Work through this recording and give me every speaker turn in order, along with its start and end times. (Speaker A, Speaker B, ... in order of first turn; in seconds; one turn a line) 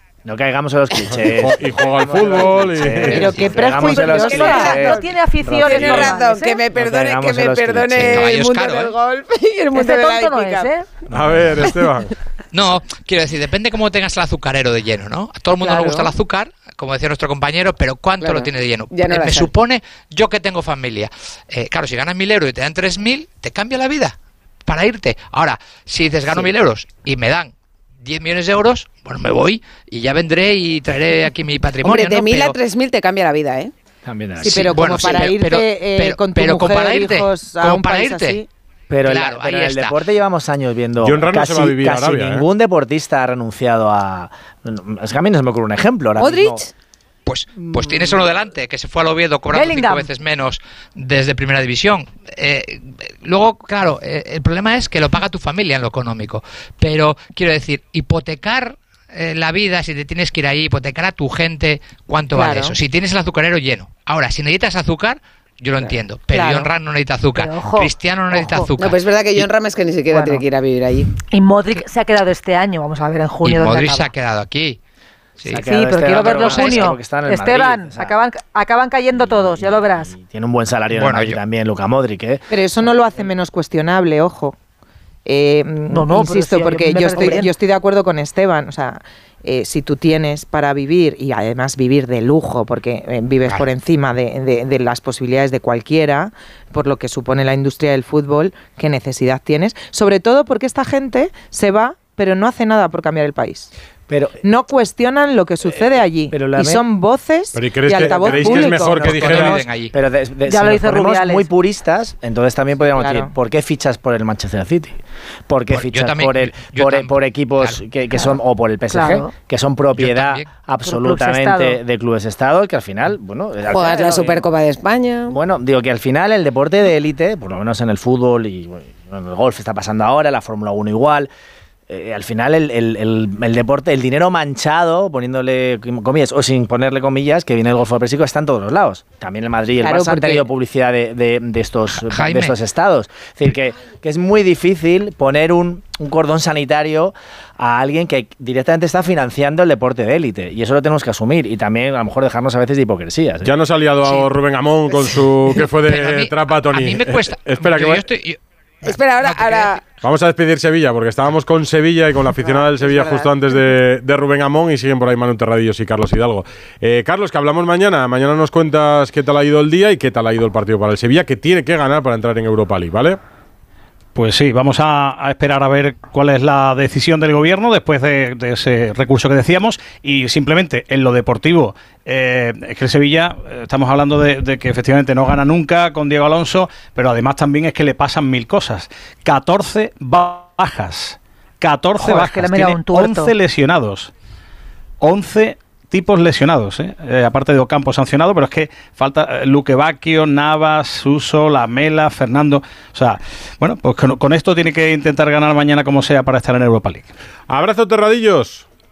Speaker A: 0.2-8.4
Speaker B: 1.1-3.4
Speaker C: 3.1-4.9
Speaker D: 3.7-6.6
Speaker E: 4.7-5.0
Speaker E: 5.6-10.7
Speaker F: 8.0-8.9
Speaker D: 9.7-10.8
Speaker A: 11.1-11.6
Speaker B: 11.1-12.1
Speaker F: 12.5-27.5
Speaker D: 15.6-16.1
Speaker E: 18.2-19.5
Speaker F: 28.0-32.5
Speaker E: 31.8-33.7
Speaker A: 34.0-35.0
Speaker C: 34.4-38.5
Speaker F: 34.5-38.4
Speaker E: 34.8-35.3
Speaker A: 38.9-46.7
Speaker F: 39.0-40.0
Speaker B: 41.0-42.5
Speaker E: 46.2-46.6
Speaker F: 47.2-69.5
Speaker D: 49.5-50.1
Speaker E: 62.4-62.7
Speaker C: 66.3-66.7
Speaker D: 67.3-67.9
Speaker E: 68.8-71.1
Speaker D: 70.1-70.4
Speaker D: 71.3-74.1
Speaker F: 73.4-74.8
Speaker F: 75.4-76.8
Speaker A: 75.5-78.1
Speaker D: 75.5-80.1
Speaker A: 79.2-82.4
Speaker F: 80.9-81.4
Speaker C: 82.5-84.5
Speaker C: 85.2-103.7
Speaker D: 85.9-87.5
Speaker A: 104.1-104.4
Speaker C: 104.4-109.4
Speaker A: 106.3-106.8
Speaker B: 107.5-109.7
Speaker F: 109.0-109.9
Speaker A: 109.9-124.5
Speaker D: 110.5-111.5
Speaker C: 113.0-113.3
Speaker F: 115.7-117.8
Speaker D: 118.9-119.3
Speaker F: 120.0-120.5
Speaker D: 120.8-121.8
Speaker E: 123.7-125.3
Speaker A: 125.3-131.3
Speaker A: 131.9-153.5
Speaker E: 139.8-140.4
Speaker F: 142.0-142.6
Speaker B: 153.4-158.0
Speaker F: 154.0-154.3
Speaker F: 155.8-158.4
Speaker E: 158.8-159.8
Speaker F: 159.2-159.7
Speaker B: 159.9-173.2
Speaker E: 162.4-163.2
Speaker G: 174.1-194.1
Speaker D: 192.0-193.3
Speaker G: 195.0-207.1
Speaker B: 207.5-208.7